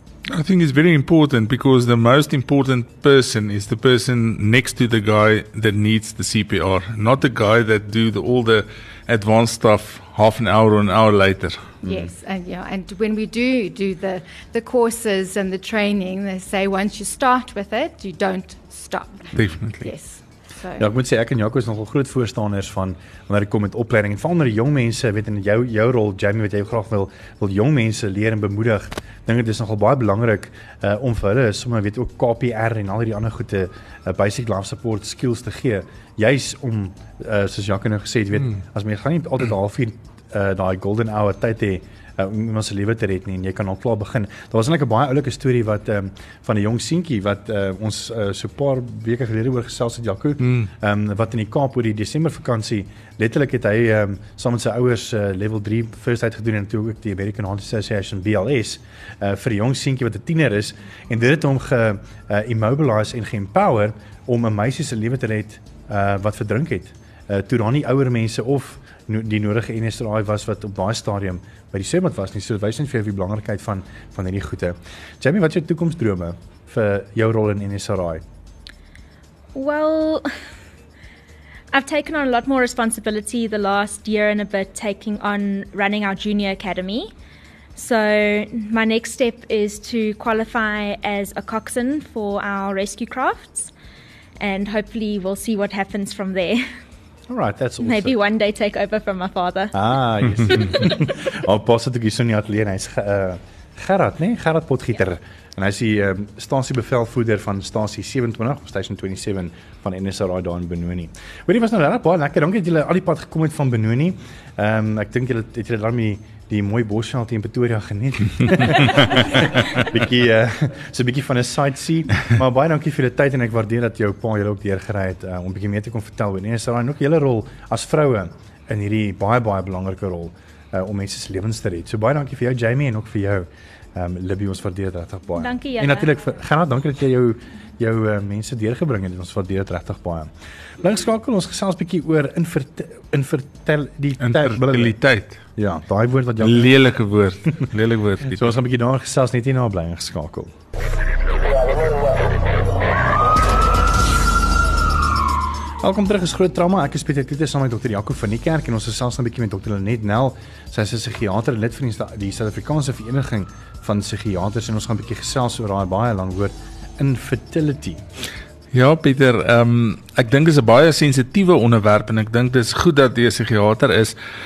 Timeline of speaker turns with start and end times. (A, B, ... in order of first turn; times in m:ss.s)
0:00.3-0:11.7 A
0:11.8-0:12.1 B
0:11.8-0:20.8 C
0:19.4-0:19.9 A
0:20.8-1:18.2 B
0:50.4-0:50.7 A
1:19.5-1:20.3 D
1:21.7-1:27.1 D
1:27.7-1:33.7 D
1:34.4-1:36.6 D
1:37.3-1:38.2 B
1:37.8-1:39.8 D
1:39.7-2:25.0 B
1:40.6-1:41.0 D
2:15.4-2:16.1 D
2:24.2-2:25.4 A
2:25.6-2:26.7 B
2:26.4-2:28.5 A
2:28.3-2:30.5 B
2:35.8-2:48.0 B
2:48.7-2:54.1 A